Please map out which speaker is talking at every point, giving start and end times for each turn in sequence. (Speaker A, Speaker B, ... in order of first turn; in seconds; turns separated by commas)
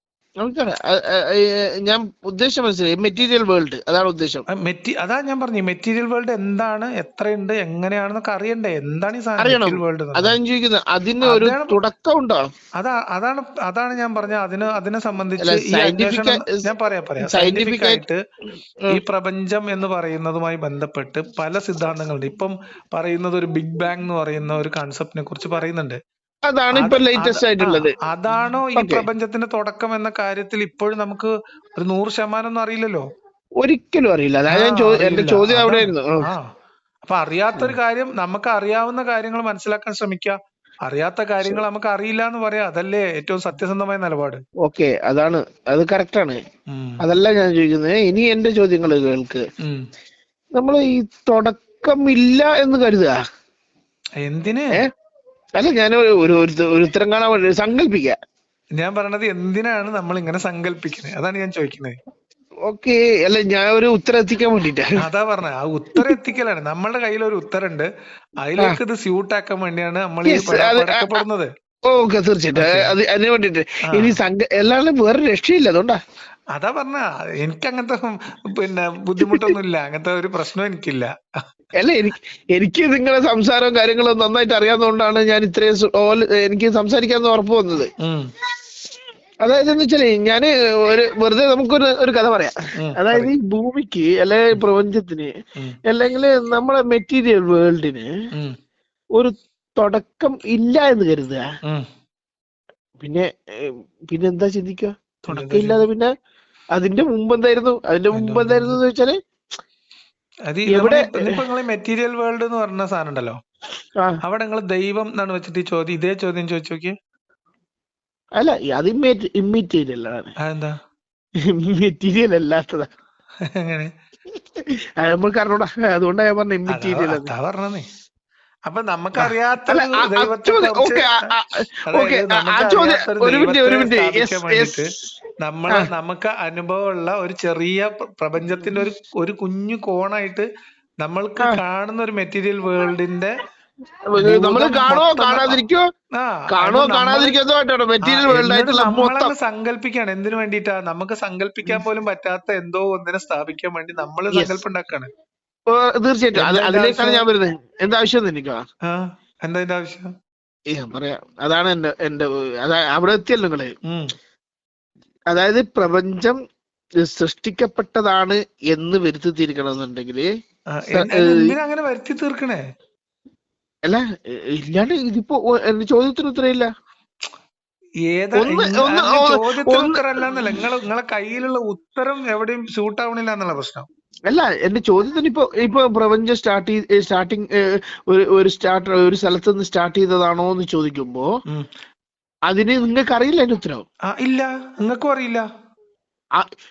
Speaker A: 0.4-4.5, Speaker B: 4.5-10.4, Speaker A: 9.4-12.4, Speaker B: 11.2-11.8, Speaker B: 12.8-18.2, Speaker A: 15.4-16.7, Speaker A: 17.2-18.0, Speaker B: 18.9-26.0, Speaker A: 26.5-27.9, Speaker B: 26.7-33.1, Speaker A: 28.8-29.0, Speaker A: 33.6-36.3, Speaker B: 34.5-36.5, Speaker B: 37.0-44.4, Speaker A: 44.6-46.4, Speaker B: 46.7-47.0, Speaker A: 47.0-49.5, Speaker B: 49.6-49.9, Speaker A: 50.6-53.2, Speaker B: 54.2-54.8, Speaker A: 55.6-58.2, Speaker B: 58.8-62.0, Speaker A: 62.7-65.0, Speaker B: 65.0-71.5, Speaker A: 70.2-71.2, Speaker A: 71.9-76.0, Speaker B: 72.5-72.9, Speaker B: 73.9-74.2, Speaker B: 76.5-81.1, Speaker A: 79.2-79.5, Speaker A: 81.8-87.9, Speaker B: 88.0-88.3, Speaker A: 89.4-95.3, Speaker B: 92.8-93.3, Speaker A: 95.9-98.1, Speaker A: 99.2-101.4, Speaker A: 103.0-106.1, Speaker B: 105.3-105.8, Speaker A: 106.7-109.2, Speaker B: 108.1-108.8, Speaker B: 110.5-113.4, Speaker A: 110.7-111.4, Speaker B: 114.2-117.0, Speaker A: 118.4-120.3, Speaker B: 120.4-120.8, Speaker A: 121.4-122.9, Speaker B: 123.4-123.9, Speaker A: 124.3-127.3, Speaker B: 126.7-127.9, Speaker B: 128.7-131.2, Speaker A: 129.2-134.8, Speaker B: 131.9-134.9, Speaker B: 135.4-140.5, Speaker B: 141.0-143.3, Speaker A: 144.2-145.9, Speaker B: 144.2-145.6, Speaker B: 146.1-147.3, Speaker A: 146.5-149.3, Speaker B: 148.0-155.1, Speaker A: 154.3-154.6, Speaker A: 155.7-158.7, Speaker B: 156.3-157.2, Speaker B: 158.9-160.1, Speaker A: 160.7-163.7, Speaker B: 163.8-164.1, Speaker A: 165.3-166.4, Speaker A: 167.0-170.3, Speaker B: 170.7-172.6, Speaker A: 170.9-171.5, Speaker A: 173.9-176.7, Speaker B: 178.0-183.9, Speaker A: 178.4-180.6, Speaker A: 184.3-191.3, Speaker A: 192.5-193.8, Speaker B: 194.1-195.5